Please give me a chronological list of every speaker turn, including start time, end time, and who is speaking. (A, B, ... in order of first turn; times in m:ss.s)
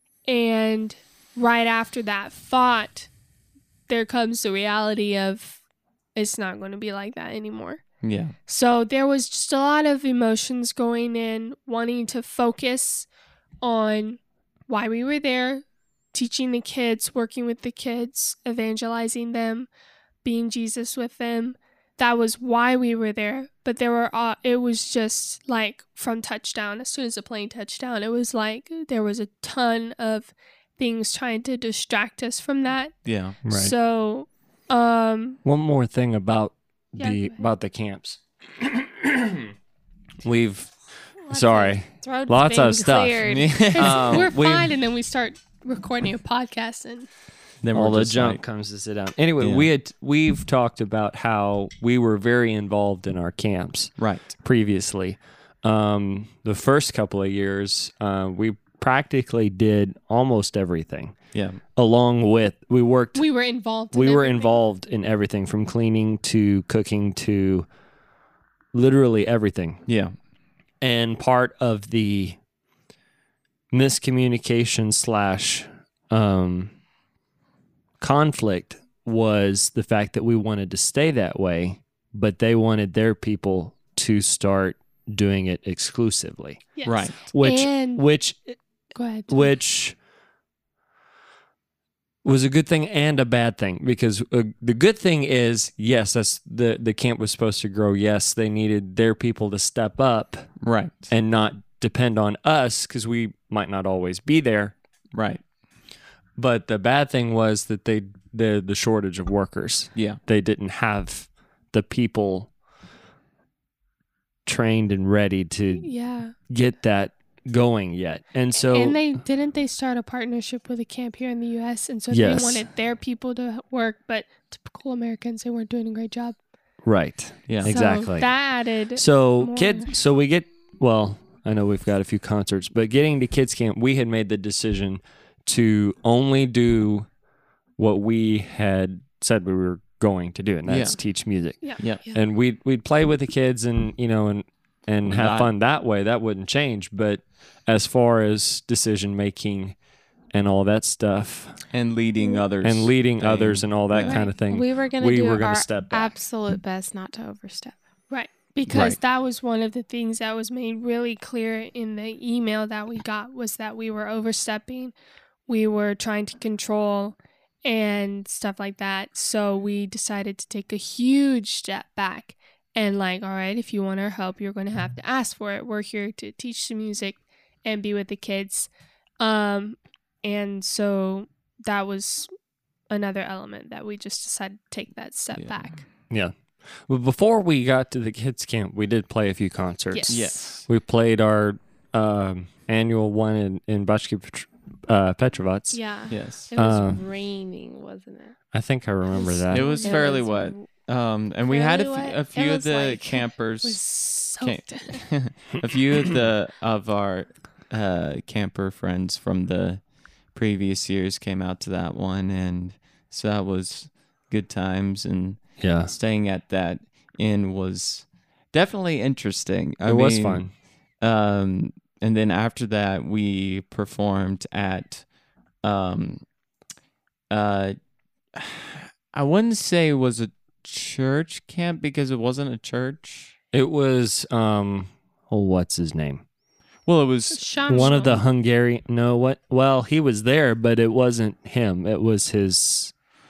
0:00.2-0:03.1 A
0:03.9-0:05.6 A
0:06.1-0:07.8 A
0:08.0-0:08.3 B
0:08.5-0:13.1 A
0:13.6-0:19.7 A
0:20.2-0:35.4 A
0:33.0-0:33.4 B
0:33.4-0:33.7 C
0:35.4-0:39.5 C
0:37.0-0:37.4 A
0:40.2-0:40.8 C
0:41.2-0:41.8 A
0:41.3-0:44.7 C
0:42.0-0:44.0 D
0:43.2-0:44.3 B
0:43.7-0:47.1 A
0:47.6-0:48.4 B
0:47.7-1:01.2 C
0:49.4-0:49.7 B
0:54.0-0:54.3 B
1:01.3-1:01.6 B
1:01.8-1:03.3 C
1:03.1-1:04.6 A
1:03.9-1:07.7 C
1:08.7-1:09.8 C
1:09.9-1:10.1 B
1:10.8-1:12.4 C
1:13.7-1:16.7 C
1:18.0-1:28.6 C
1:26.8-1:28.0 A
1:26.8-1:27.2 B
1:28.9-1:29.5 A
1:29.3-1:29.9 C
1:32.2-1:40.5 C
1:40.6-1:41.1 B
1:41.1-1:44.7 C
1:45.1-1:45.4 B
1:46.4-1:52.5 C
1:54.4-1:55.9 C
1:55.7-1:56.3 A
1:56.5-1:59.2 C
1:58.5-2:06.4 A
2:02.1-2:02.6 C
2:06.8-2:17.1 C
2:07.5-2:07.7 B
2:07.7-2:09.9 A
2:17.8-2:29.7 C
2:20.6-2:21.0 B
2:21.8-2:22.0 B
2:25.0-2:25.5 B
2:30.3-2:31.6 C
2:31.7-2:34.2 B
2:32.6-2:36.1 C
2:34.0-2:34.3 A
2:34.3-2:37.8 D
2:38.1-2:44.9 A
2:38.7-2:39.0 B
2:45.5-2:58.7 A
2:59.2-3:02.3 A
3:02.9-3:05.8 A
3:06.8-3:15.8 C
3:09.9-3:10.4 A
3:10.1-3:10.7 B
3:15.7-3:18.4 D
3:16.1-3:16.5 B
3:16.5-3:17.0 C
3:18.5-3:19.8 C
3:19.1-3:20.7 D
3:19.5-3:23.8 B
3:19.7-3:20.0 A
3:21.4-3:23.3 D
3:23.6-3:25.0 A
3:24.4-3:29.8 B
3:30.3-3:40.4 B
3:35.6-3:35.9 C
3:39.8-3:40.5 C
3:41.0-3:45.0 B
3:45.6-3:46.2 B
3:47.3-3:47.8 B
3:48.3-3:53.3 B
3:53.5-3:56.2 C
3:56.8-3:57.9 B
3:57.3-3:58.2 A
3:57.7-4:02.9 C